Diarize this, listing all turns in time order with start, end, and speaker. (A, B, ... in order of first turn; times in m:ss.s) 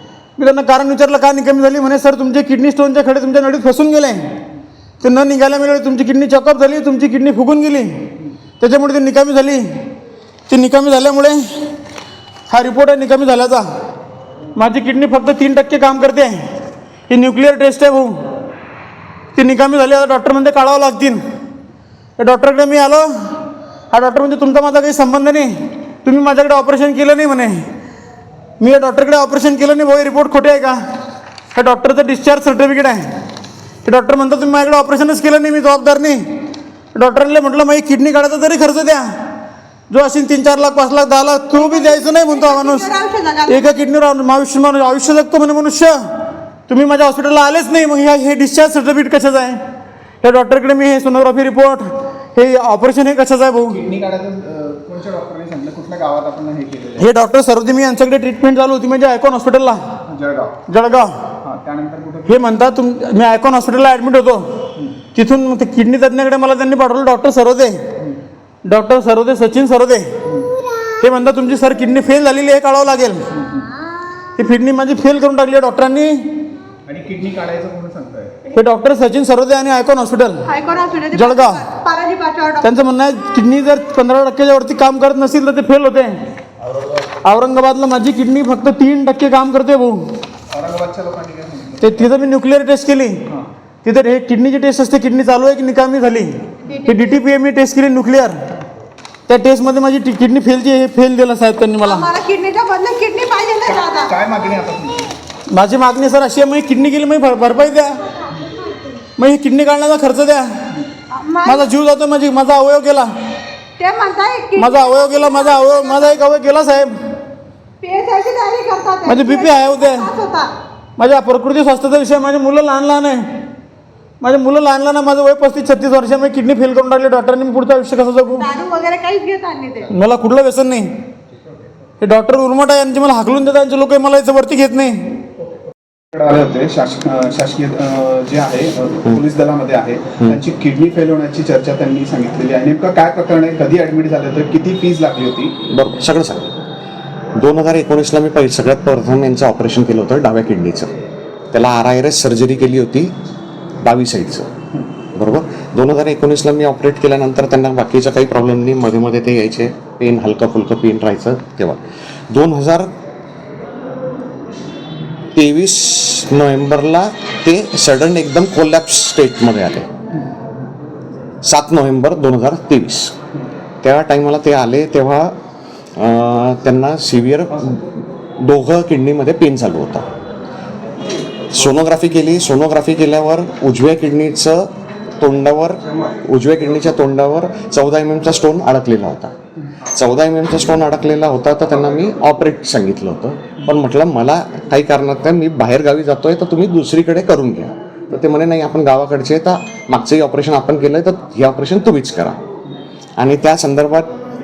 0:00.4-0:04.2 A
0:05.0-0:09.7 A
0:10.5-0:11.4 A
0:12.5-0:13.6 A
0:14.6-0:16.5 A
0:17.1-0:18.1 A
0:19.4-0:21.2 A
0:22.2-0:23.1 A
0:23.9-0:27.6 A
0:28.6-0:30.8 A
0:31.5-0:33.0 A
0:33.8-0:36.2 A
0:36.9-0:39.0 A
0:39.9-0:42.9 A
0:41.5-0:43.8 B
0:43.5-0:46.0 A
0:46.7-0:49.6 A
0:50.2-0:53.8 A
0:53.7-0:57.1 C
0:57.0-0:59.8 A
1:00.1-1:00.6 C
1:00.7-1:01.1 A
1:01.4-1:02.5 C
1:02.3-1:04.5 A
1:05.2-1:07.8 A
1:08.6-1:10.1 A
1:11.0-1:13.2 A
1:14.4-1:16.2 A
1:16.9-1:18.4 C
1:18.5-1:20.5 A
1:20.5-1:22.7 B
1:21.1-1:21.6 A
1:22.6-1:26.2 A
1:27.2-1:30.0 A
1:30.5-1:32.1 C
1:31.8-1:33.2 A
1:33.8-1:36.3 A
1:36.7-1:37.1 B
1:36.8-1:38.4 A
1:39.3-1:42.1 A
1:41.8-1:44.1 B
1:43.7-1:45.1 C
1:45.5-1:48.0 A
1:48.1-1:49.0 B
1:49.2-1:50.5 A
1:51.1-1:51.7 B
1:51.4-1:53.1 A
1:53.8-1:56.2 B
1:54.6-1:57.0 A
1:57.8-2:00.5 B
1:59.1-2:00.1 A
2:01.0-2:03.2 A
2:04.2-2:08.5 A
2:08.3-2:09.9 B
2:09.9-2:10.9 A
2:12.0-2:15.1 A
2:16.1-2:25.6 C
2:25.7-2:26.5 D
2:27.4-2:30.9 D
2:31.5-2:33.1 D
2:33.8-2:34.5 D
2:35.1-2:42.9 D
2:45.4-2:49.9 D
2:51.4-2:53.1 D
2:53.8-2:55.3 D
2:56.0-3:00.1 D
3:01.5-3:09.3 D
3:09.9-3:22.4 D
3:23.2-3:24.1 D